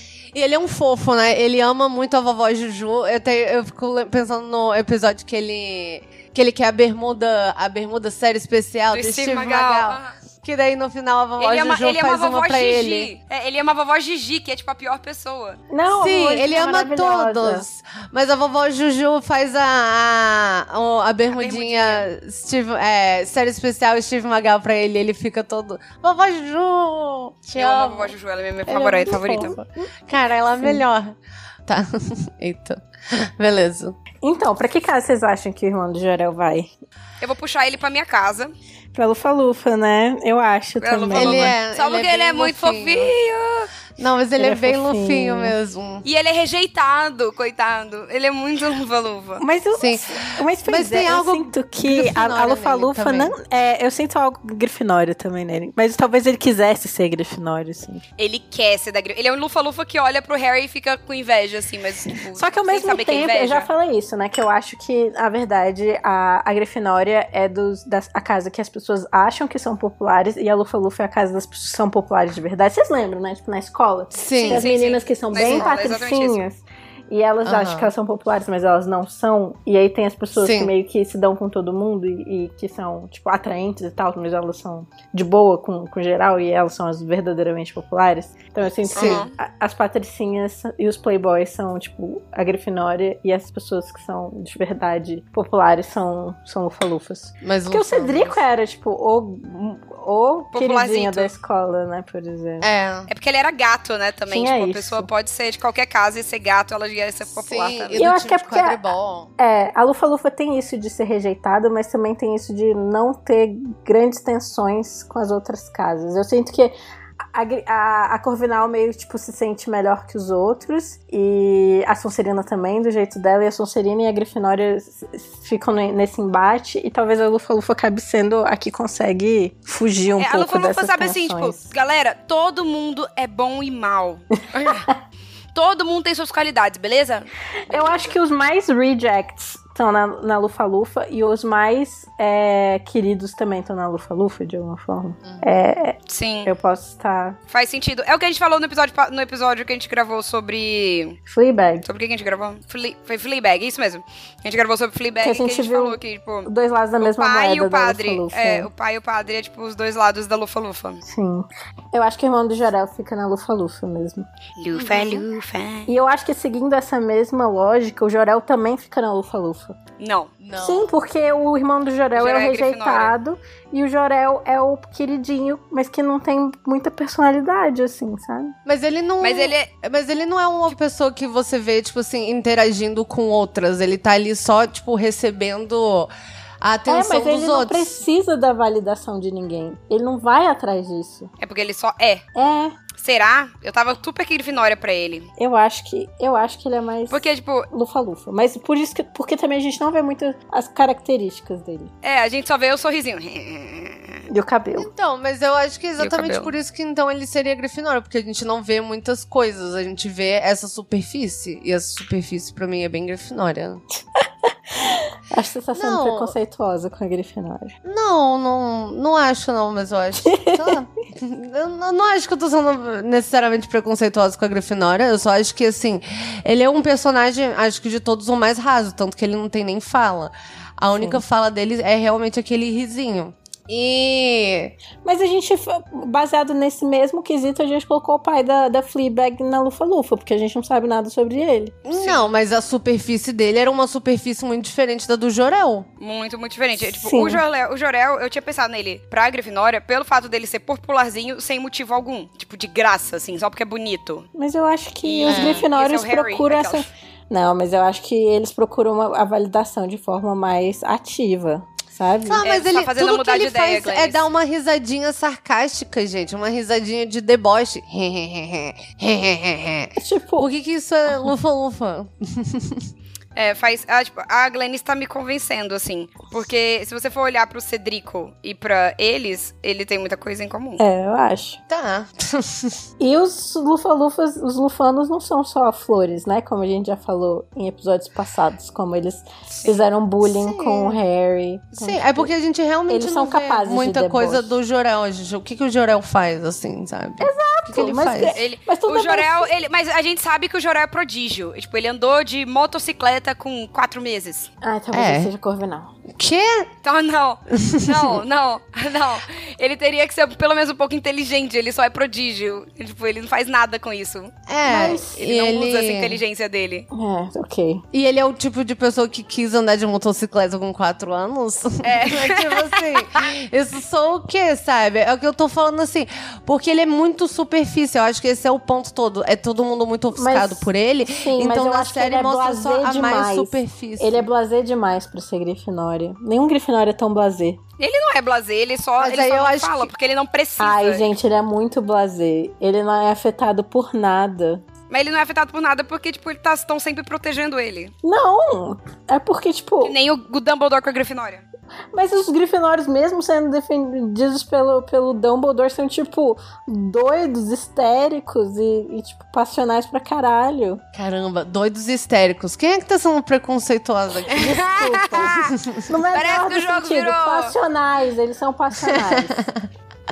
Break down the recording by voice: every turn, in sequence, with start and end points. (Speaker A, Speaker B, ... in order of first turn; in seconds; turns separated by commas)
Speaker A: 0.3-13.1, Speaker B: 8.9-10.1, Speaker B: 11.4-15.6, Speaker C: 15.7-17.6, Speaker A: 15.9-28.1, Speaker B: 21.3-22.1, Speaker B: 27.6-29.6, Speaker A: 28.7-31.1, Speaker C: 28.7-29.6, Speaker A: 31.7-34.0, Speaker C: 34.2-36.7, Speaker B: 37.2-38.5, Speaker C: 38.9-41.5, Speaker B: 40.8-43.7, Speaker A: 41.1-43.1, Speaker A: 44.0-46.0, Speaker C: 44.4-45.6, Speaker B: 46.0-49.4, Speaker C: 49.4-58.0, Speaker A: 49.7-53.4, Speaker B: 58.2-63.7, Speaker C: 62.4-102.7, Speaker A: 74.1-74.7, Speaker B: 74.5-76.4, Speaker A: 75.4-75.7, Speaker A: 77.4-77.9, Speaker A: 80.3-80.7, Speaker A: 88.8-89.2, Speaker B: 89.0-89.3, Speaker A: 97.4-98.4, Speaker B: 100.5-101.3, Speaker A: 102.6-103.1, Speaker B: 103.1-108.1, Speaker C: 104.3-105.1, Speaker A: 107.3-109.3, Speaker C: 108.0-108.8, Speaker C: 109.4-116.8, Speaker C: 117.3-131.7, Speaker B: 130.2-134.8, Speaker B: 135.5-138.2, Speaker C: 137.7-147.4, Speaker A: 145.2-145.6, Speaker B: 146.1-146.5, Speaker B: 147.5-151.2, Speaker C: 151.3-151.8, Speaker B: 151.8-156.5, Speaker C: 155.2-158.7, Speaker B: 157.0-161.0, Speaker C: 161.1-164.3, Speaker B: 164.6-165.9, Speaker A: 164.7-165.2, Speaker C: 165.9-169.8, Speaker B: 170.0-170.3, Speaker A: 170.4-170.9, Speaker C: 170.6-178.6, Speaker B: 172.2-173.2, Speaker A: 178.7-188.1, Speaker B: 179.2-179.7, Speaker C: 186.9-191.3, Speaker B: 191.4-192.2, Speaker C: 192.3-192.8, Speaker B: 193.0-195.3, Speaker C: 195.4-201.9, Speaker B: 197.1-197.7, Speaker B: 202.0-204.2, Speaker C: 204.3-204.9, Speaker A: 204.8-213.8, Speaker B: 206.0-206.5, Speaker C: 214.7-217.7, Speaker A: 215.7-216.4, Speaker A: 217.8-234.7, Speaker C: 220.2-220.8, Speaker C: 235.0-241.8, Speaker A: 241.8-245.9, Speaker B: 241.9-242.3, Speaker B: 246.0-254.3, Speaker C: 246.8-247.4, Speaker C: 254.3-262.4, Speaker B: 255.0-256.9, Speaker A: 255.3-255.7, Speaker A: 262.2-272.9, Speaker B: 262.4-264.2, Speaker C: 270.0-270.5, Speaker B: 273.4-280.8, Speaker C: 280.8-281.6, Speaker A: 281.7-282.8, Speaker C: 283.0-292.3, Speaker A: 290.2-291.0, Speaker A: 291.8-298.4, Speaker C: 292.9-294.5, Speaker C: 297.2-299.5, Speaker B: 298.4-304.5, Speaker C: 304.6-305.9, Speaker A: 304.9-305.3, Speaker A: 306.1-306.7, Speaker B: 306.8-314.3, Speaker A: 307.5-308.2, Speaker A: 314.5-316.2, Speaker C: 314.6-315.2, Speaker B: 315.2-316.9, Speaker C: 316.9-317.8, Speaker A: 317.9-334.3, Speaker B: 321.8-323.2, Speaker C: 330.1-337.6, Speaker B: 337.8-341.1, Speaker A: 339.0-339.9, Speaker C: 340.6-344.6, Speaker B: 344.9-347.9, Speaker C: 348.0-350.0, Speaker B: 349.8-351.4, Speaker C: 351.9-360.8, Speaker A: 360.9-364.6, Speaker C: 364.3-369.4, Speaker B: 364.7-365.5, Speaker B: 366.1-367.6, Speaker A: 368.8-369.7